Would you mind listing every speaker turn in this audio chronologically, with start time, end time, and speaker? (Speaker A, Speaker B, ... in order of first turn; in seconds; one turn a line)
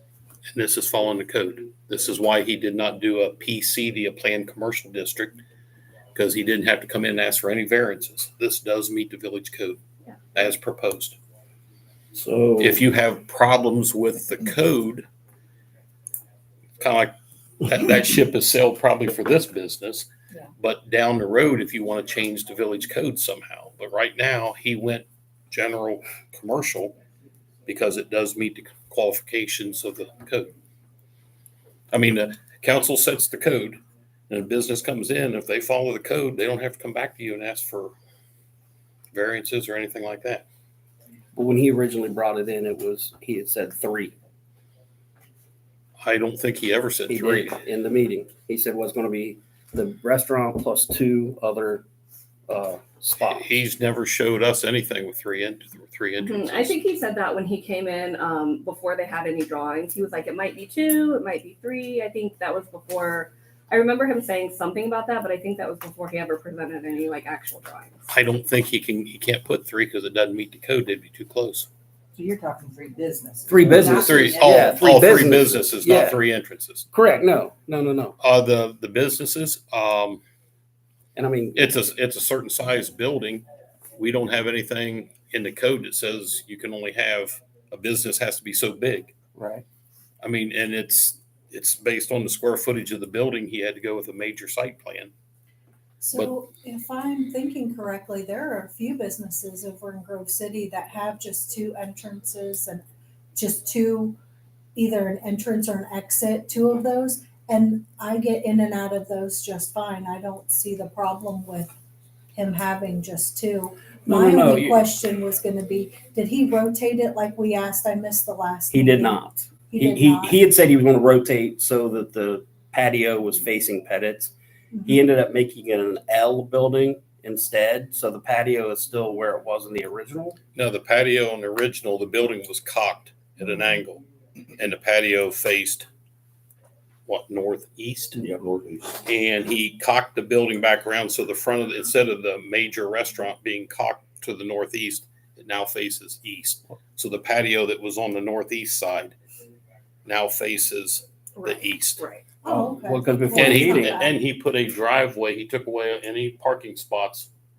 Speaker A: 0.5-5.4
Speaker A: 6.1-9.8
Speaker A: 10.3-11.2
Speaker B: 12.2-12.8
Speaker A: 12.6-15.1
Speaker A: 16.8-17.1
Speaker A: 17.6-20.1
Speaker A: 20.6-26.9
Speaker A: 27.7-30.5
Speaker A: 31.9-37.9
Speaker A: 39.1-40.5
Speaker B: 41.4-44.1
Speaker A: 46.0-47.5
Speaker B: 47.1-51.9
Speaker B: 52.5-53.5
Speaker A: 53.2-56.8
Speaker C: 56.2-68.0
Speaker A: 68.1-71.7
Speaker D: 72.2-75.2
Speaker B: 73.5-76.2
Speaker A: 73.8-76.9
Speaker B: 76.9-78.2
Speaker A: 78.2-80.2
Speaker B: 81.2-81.7
Speaker A: 81.5-83.4
Speaker A: 84.0-89.2
Speaker B: 89.4-89.6
Speaker A: 90.2-95.1
Speaker E: 96.0-102.8
Speaker E: 103.3-104.2
Speaker E: 104.8-111.7
Speaker E: 112.3-120.4
Speaker B: 114.1-114.8
Speaker B: 118.7-124.3
Speaker E: 124.8-125.0
Speaker B: 124.8-130.4
Speaker A: 130.6-134.0
Speaker A: 134.6-135.9
Speaker A: 137.1-138.3
Speaker B: 138.2-138.8
Speaker A: 139.0-149.2
Speaker A: 150.1-152.0
Speaker C: 151.4-152.2
Speaker E: 152.4-154.2
Speaker B: 152.5-154.0
Speaker A: 153.3-157.3